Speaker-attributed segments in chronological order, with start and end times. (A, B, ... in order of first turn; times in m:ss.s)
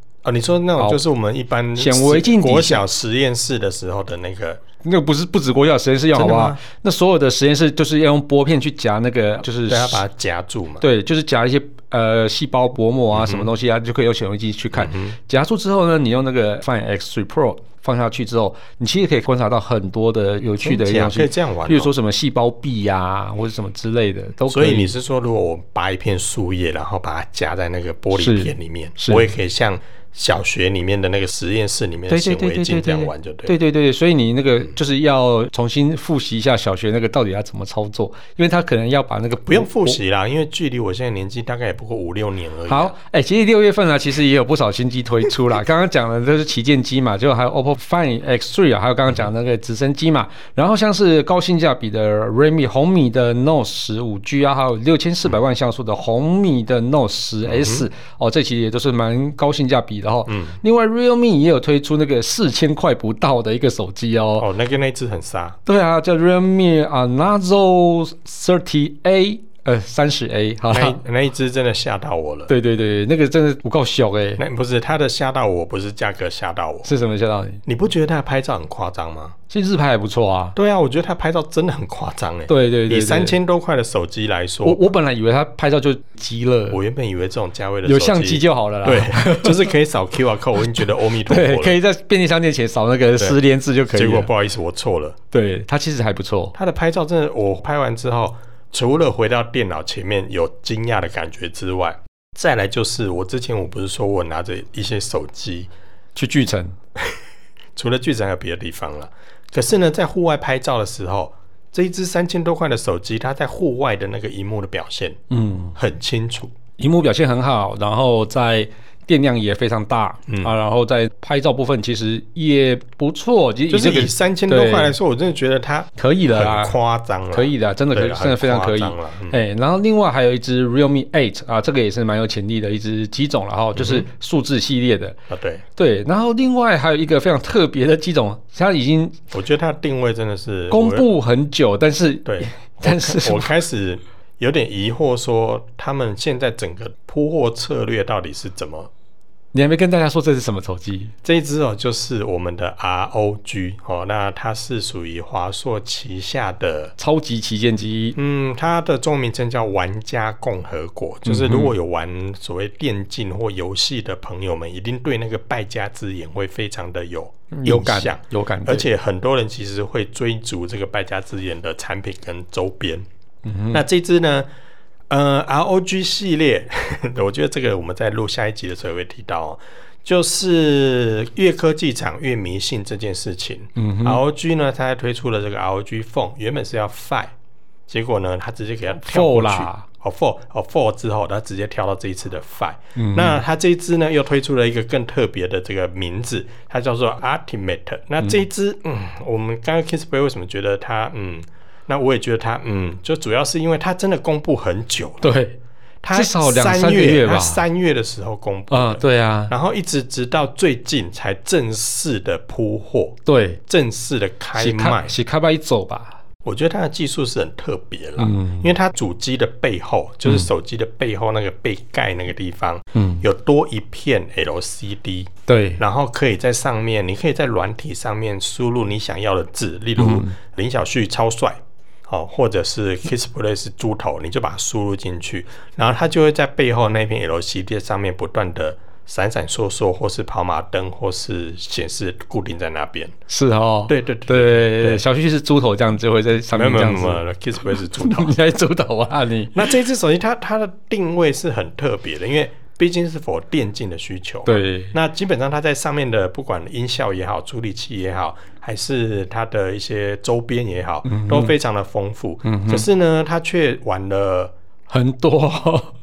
0:00.2-0:04.6 A
0:01.8-0:02.8 B
0:04.8-0:10.0 B
0:06.1-0:06.6 A
0:09.7-0:10.8 A
0:10.8-0:24.9 B
0:13.1-0:13.5 A
0:14.8-0:15.2 A
0:20.6-0:21.9 A
0:24.5-0:33.6 A
0:28.2-0:29.3 B
0:32.1-0:40.0 B
0:39.5-0:43.0 A
0:42.7-1:04.5 B
0:57.5-0:57.9 A
1:00.3-1:00.6 A
1:04.4-1:05.6 A
1:05.7-1:11.0 B
1:10.7-1:12.5 A
1:12.5-1:14.4 B
1:14.4-1:16.9 A
1:16.8-1:17.6 B
1:17.7-1:19.4 A
1:19.5-1:20.6 B
1:20.6-1:24.8 A
1:22.5-1:23.4 B
1:24.6-1:26.8 B
1:26.7-1:31.8 A
1:27.8-1:29.7 B
1:31.3-1:34.3 B
1:33.9-1:35.2 A
1:35.3-1:36.6 B
1:36.6-1:45.7 A
1:46.2-1:46.8 B
1:47.8-1:55.2 A
1:55.3-1:55.8 B
1:55.8-1:56.5 A
1:56.8-2:05.0 B
2:03.7-2:09.4 A
2:06.0-2:06.8 B
2:07.3-2:15.2 B
2:13.8-2:14.1 A
2:15.3-2:15.6 A
2:15.8-2:19.2 B
2:19.3-2:21.1 A
2:20.7-2:23.5 B
2:22.3-2:28.9 A
2:29.5-2:31.1 B
2:31.2-2:37.0 A
2:37.0-2:38.2 B
2:38.2-2:53.0 A
2:41.2-2:41.7 B
2:47.5-2:48.9 B
2:53.4-2:53.8 B
2:53.7-2:54.5 A
2:55.1-3:07.3 A
3:03.8-3:04.2 B
3:07.9-3:25.3 A
3:09.0-3:09.9 B
3:13.0-3:13.4 B
3:25.2-3:25.6 B
3:26.0-3:35.2 A
3:26.1-3:27.6 B
3:28.7-3:29.5 B
3:33.3-3:33.6 B
3:34.6-3:36.2 B
3:36.4-4:03.2 A
3:38.2-3:38.7 B
3:43.0-3:43.2 B
3:45.5-3:45.8 B
3:50.0-3:50.4 B
4:03.3-4:07.2 B
4:03.9-4:05.0 A
4:06.5-4:08.4 A
4:07.8-4:09.7 B
4:09.5-4:24.5 A
4:14.5-4:15.0 B
4:21.1-4:21.5 B
4:22.4-4:22.8 B
4:24.9-4:26.0 B